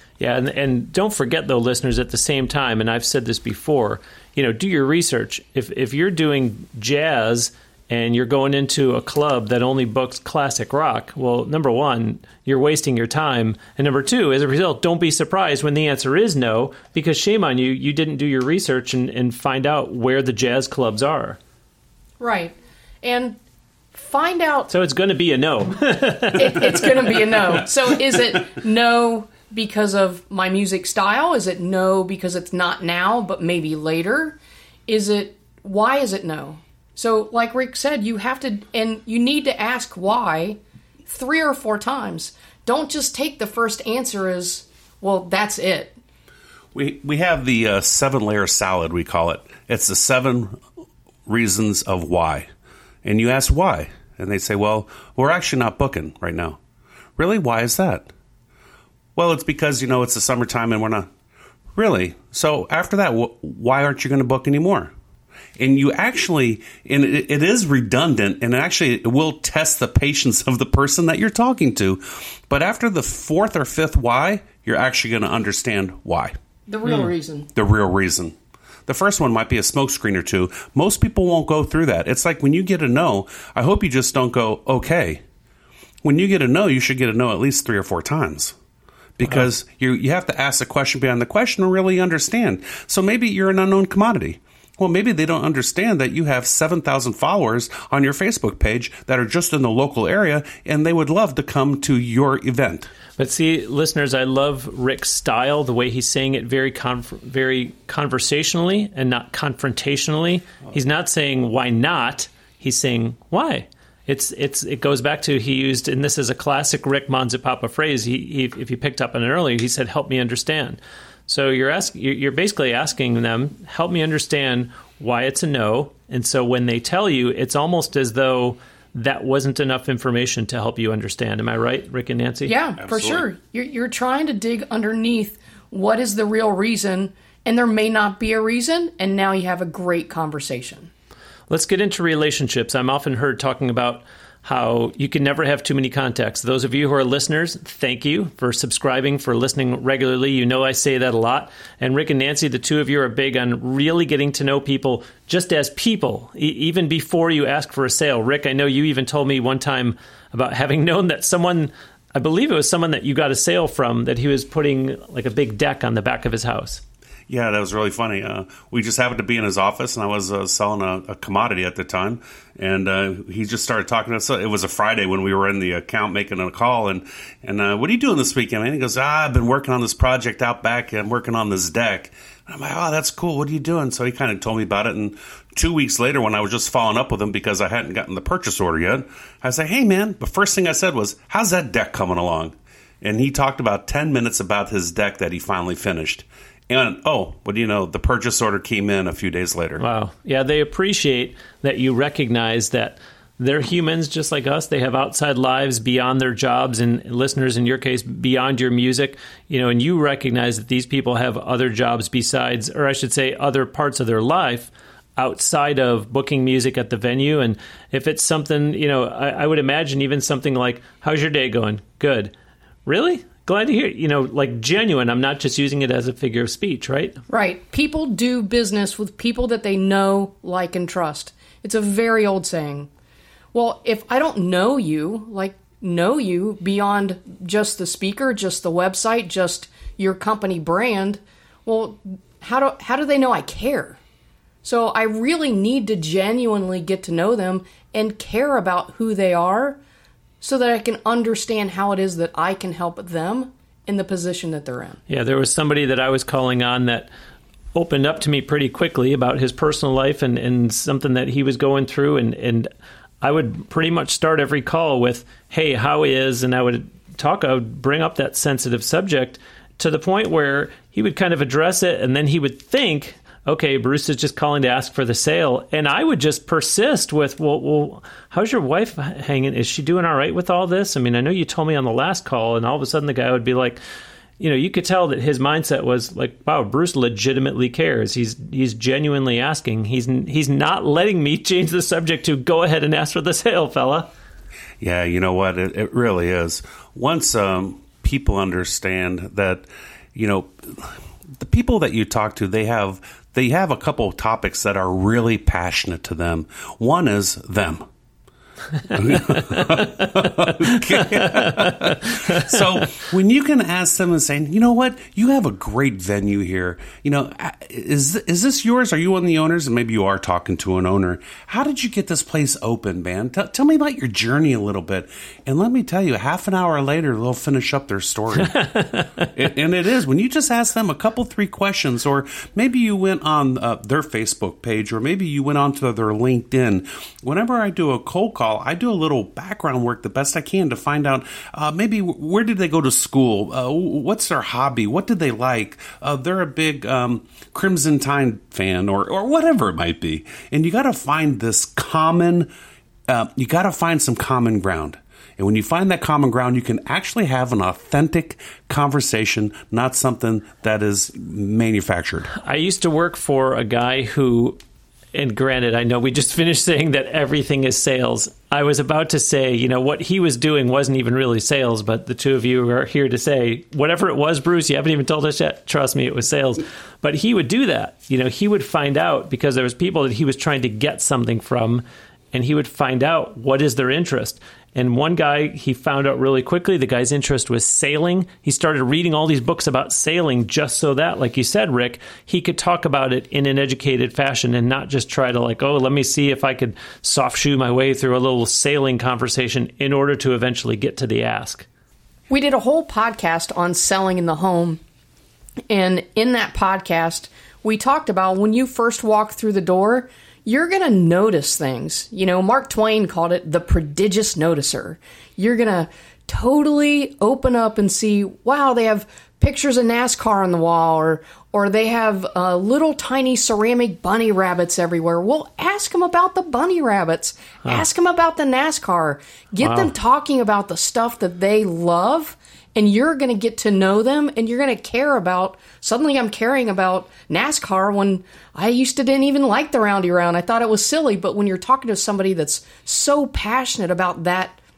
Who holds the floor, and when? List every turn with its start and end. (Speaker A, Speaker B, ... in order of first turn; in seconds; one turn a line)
Speaker A: 0.2-21.4
Speaker B: 22.2-23.4
Speaker B: 23.9-24.7
Speaker A: 24.7-27.4
Speaker B: 26.4-46.0
Speaker C: 46.7-50.6
Speaker C: 51.3-52.5
Speaker C: 53.0-56.6
Speaker C: 57.2-58.1
Speaker C: 59.1-61.1
Speaker C: 61.8-64.9
Speaker C: 65.6-76.3
Speaker B: 76.7-77.5
Speaker C: 77.5-85.2
Speaker C: 86.0-88.5
Speaker C: 89.2-102.9
Speaker A: 103.2-132.5
Speaker B: 132.4-140.9
Speaker C: 132.8-133.2
Speaker A: 141.5-166.8
Speaker C: 167.3-199.8
Speaker A: 199.8-222.3
Speaker A: 222.8-227.2
Speaker B: 227.3-232.9
Speaker B: 233.5-244.0
Speaker B: 244.6-249.8
Speaker B: 250.4-255.0
Speaker A: 255.1-257.1
Speaker A: 257.7-262.7
Speaker A: 263.2-283.8
Speaker A: 284.4-294.1
Speaker C: 294.8-307.9
Speaker C: 308.9-328.6
Speaker A: 311.0-312.6
Speaker A: 328.4-329.3
Speaker C: 329.3-352.5
Speaker C: 353.1-362.3
Speaker A: 362.3-364.6
Speaker A: 365.1-401.6
Speaker B: 402.3-404.8
Speaker B: 405.7-444.6
Speaker A: 429.6-429.9